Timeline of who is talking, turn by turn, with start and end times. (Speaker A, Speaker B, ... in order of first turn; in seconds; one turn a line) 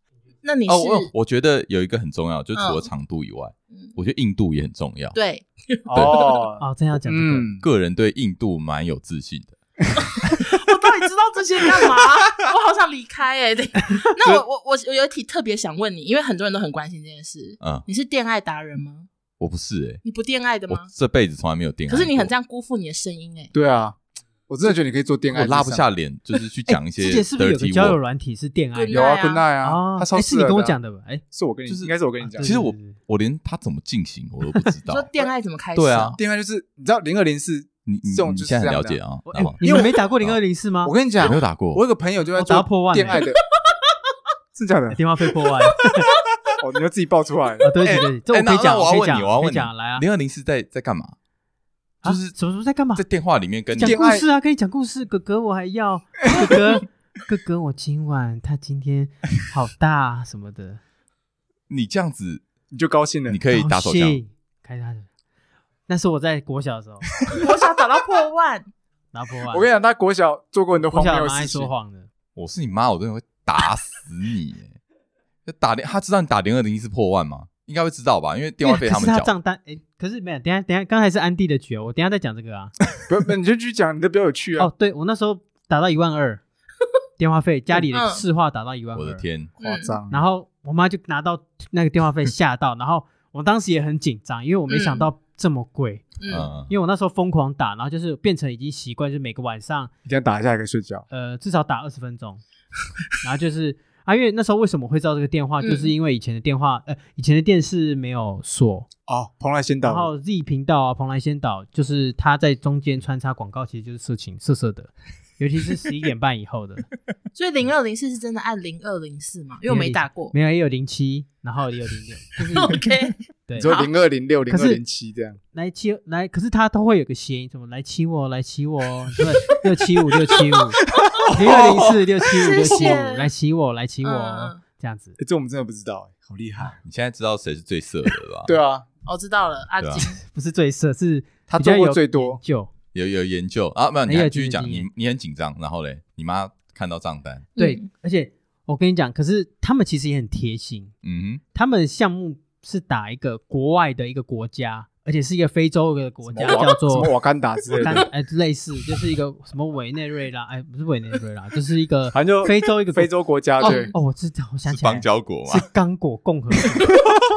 Speaker A: 0.4-1.1
Speaker B: 0.7-5.2
Speaker A: 2.6-2.9
Speaker A: 5.1-6.4
Speaker C: 5.9-7.7
Speaker B: 5.9-6.2
Speaker D: 6.6-7.5
Speaker B: 7.6-9.6
Speaker A: 10.1-19.1
Speaker B: 19.4-20.0
Speaker A: 20.0-20.9
Speaker B: 20.7-22.3
Speaker A: 21.9-23.5
Speaker C: 23.5-25.9
Speaker B: 25.3-28.0
Speaker D: 26.7-31.2
Speaker A: 28.8-29.4
Speaker C: 28.9-30.8
Speaker C: 31.3-32.5
Speaker B: 31.7-35.1
Speaker D: 32.2-33.0
Speaker A: 34.9-36.2
Speaker B: 35.8-36.2
Speaker C: 36.2-39.0
Speaker B: 37.9-39.6
Speaker D: 39.3-40.9
Speaker C: 39.6-40.0
Speaker C: 40.8-43.4
Speaker B: 41.2-41.8
Speaker D: 42.4-43.2
Speaker C: 44.5-45.0
Speaker D: 44.9-46.1
Speaker C: 46.6-47.7
Speaker D: 47.6-50.0
Speaker B: 47.8-51.2
Speaker D: 52.0-53.0
Speaker B: 52.0-52.4
Speaker B: 53.0-54.0
Speaker D: 53.7-60.8
Speaker C: 53.8-54.3
Speaker B: 61.7-62.5
Speaker C: 62.7-63.4
Speaker B: 63.3-64.2
Speaker D: 63.5-65.1
Speaker D: 65.9-67.1
Speaker A: 67.3-68.7
Speaker D: 69.1-69.7
Speaker C: 69.5-71.7
Speaker D: 70.8-72.1
Speaker B: 72.3-74.8
Speaker B: 75.5-79.3
Speaker D: 78.6-82.7
Speaker C: 83.1-84.7
Speaker D: 84.6-86.4
Speaker D: 87.2-89.2
Speaker A: 87.9-88.2
Speaker B: 89.0-89.5
Speaker A: 89.6-90.0
Speaker C: 89.6-90.2
Speaker D: 90.1-99.9
Speaker A: 94.7-95.1
Speaker A: 96.2-96.5
Speaker B: 96.3-96.7
Speaker C: 100.1-101.1
Speaker D: 101.1-102.4
Speaker D: 103.2-108.9
Speaker A: 105.6-105.9
Speaker C: 109.1-110.1
Speaker D: 109.8-116.9
Speaker A: 117.3-120.3
Speaker D: 119.7-122.8
Speaker A: 122.4-123.9
Speaker D: 123.5-123.7
Speaker C: 123.6-125.4
Speaker D: 124.5-124.8
Speaker D: 125.5-135.2
Speaker B: 131.2-132.1
Speaker A: 132.4-133.3
Speaker A: 134.0-134.6
Speaker C: 135.2-136.8
Speaker B: 136.8-138.5
Speaker C: 138.5-138.9
Speaker A: 139.1-140.2
Speaker B: 139.8-140.1
Speaker D: 140.0-142.7
Speaker C: 141.5-142.4
Speaker B: 142.9-147.5
Speaker D: 144.1-144.9
Speaker A: 147.6-147.8
Speaker D: 147.6-150.9
Speaker B: 151.0-151.4
Speaker D: 151.5-157.2
Speaker C: 156.3-158.1
Speaker D: 157.8-166.9
Speaker C: 162.1-163.9
Speaker A: 163.6-163.9
Speaker B: 164.7-165.7